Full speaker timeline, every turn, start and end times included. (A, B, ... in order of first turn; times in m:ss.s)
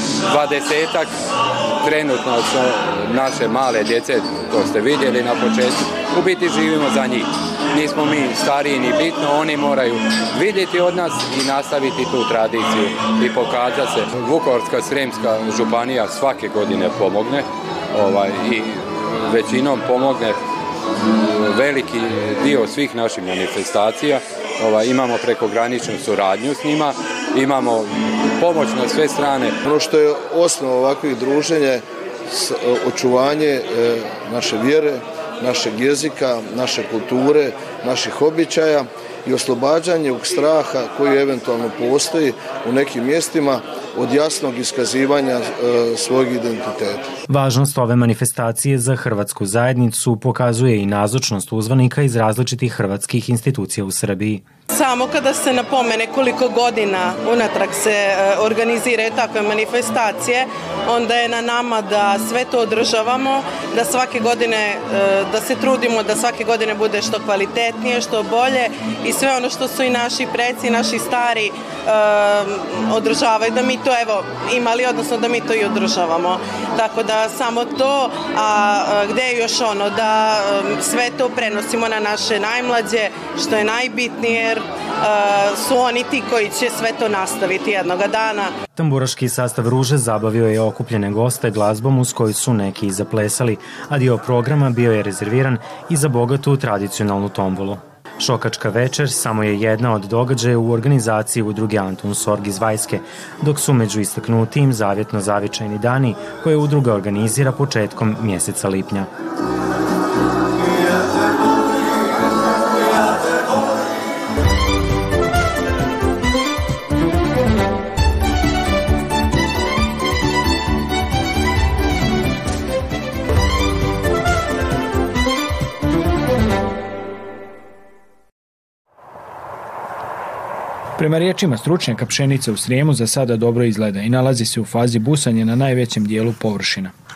0:00.3-0:01.1 A
0:01.8-0:20.4 A
0:21.3-0:29.6 A
0:29.6-0:47.0 B
0:47.3-0:54.4 C
0:54.7-1:28.5 D
1:28.8-1:49.1 C
2:11.0-2:16.9 E